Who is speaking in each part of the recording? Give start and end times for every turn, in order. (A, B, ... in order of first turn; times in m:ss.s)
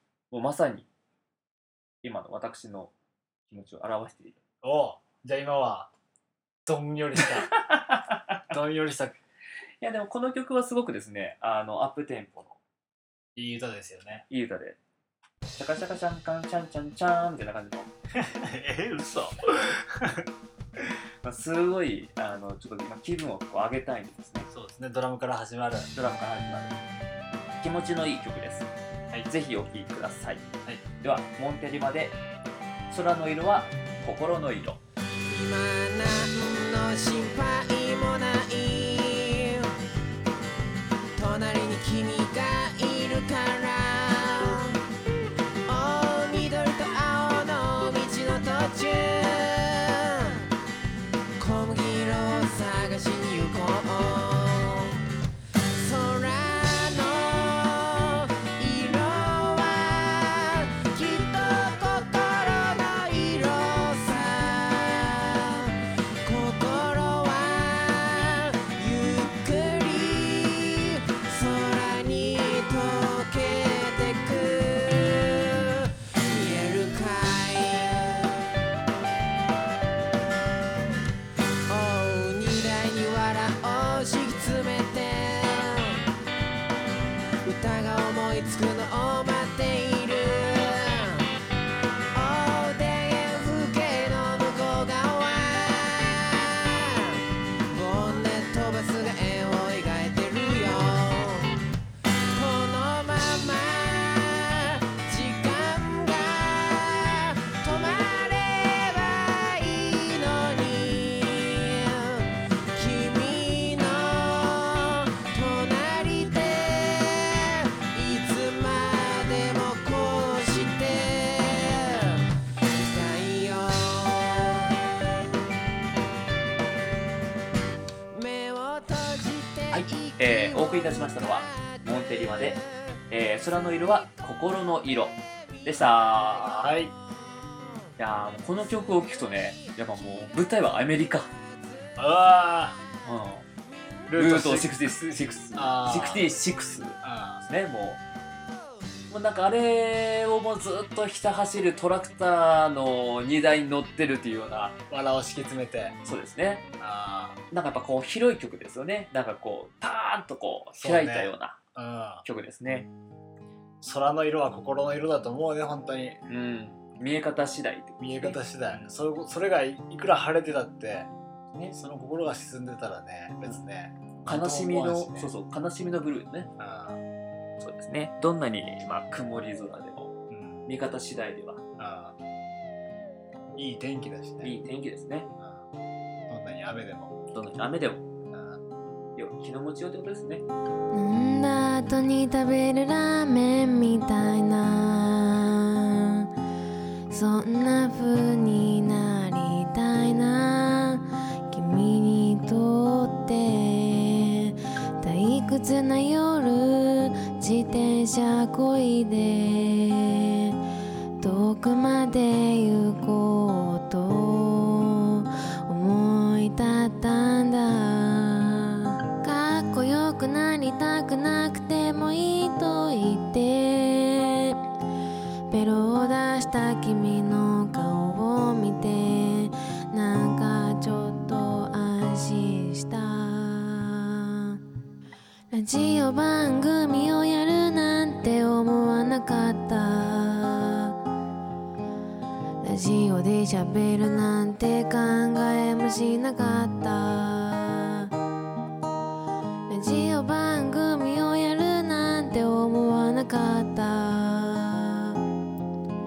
0:00.3-0:00.9 A
0:02.0-0:02.9 A
0:03.5-0:04.4 A
0:04.6-0:05.9 B
0:06.6-0:07.5 B
0:07.2-0:08.6 A
0:08.5-0:09.2 B
0:09.8-0:12.6 A
0:13.3-0:14.2 B
0:14.3-0:14.8 A
0:15.6-0:17.9 A
0:18.1-0:20.3 B
0:21.2-0:24.5 A
0:24.5-0:25.9 B
0:25.9-0:26.8 A
0:27.6-0:28.7 A
0:29.3-0:30.4 A
0:31.0-0:32.2 A
0:32.9-0:34.8 A
0:35.3-0:39.7 C
0:41.2-0:44.8 C
0:45.6-0:50.4 C
0:51.4-0:55.0 C
0:55.7-1:05.7 C
1:06.2-1:18.3 C
1:21.7-1:26.0 C
1:27.4-1:31.3 C
1:32.1-1:41.6 C
1:42.3-2:04.7 C
2:08.1-2:10.7 C
2:09.7-2:16.5 A
2:16.4-2:16.9 B
2:18.0-2:21.3 A
2:22.0-2:22.8 B
2:23.0-2:23.4 A
2:24.1-2:26.4 B
2:24.1-2:28.0 A
2:27.0-2:27.4 B
2:29.1-2:34.8 A
2:34.9-2:36.0 B
2:36.0-2:36.6 A
2:36.8-2:37.4 B
2:37.5-2:41.6 A
2:40.8-2:42.2 B
2:42.2-2:42.9 A
2:43.8-2:46.2 B
2:46.3-2:48.9 A
2:48.0-2:51.1 B
2:51.7-2:55.3 B
2:54.2-2:56.5 A
2:56.6-2:57.0 B
2:57.6-3:00.1 A
3:00.3-3:00.6 B
3:00.6-3:01.6 A
3:01.8-3:02.2 B
3:03.6-3:04.5 B
3:04.4-3:05.3 A
3:05.4-3:05.6 B
3:06.3-3:07.1 B
3:07.3-3:08.0 A
3:08.3-3:08.6 B
3:09.2-3:10.4 A
3:10.9-3:16.3 D
3:17.1-3:30.5 D
3:31.2-3:44.6 D
3:45.5-3:54.6 D
3:55.5-4:00.9 D
4:02.6-4:08.1 D
4:09.7-4:15.2 D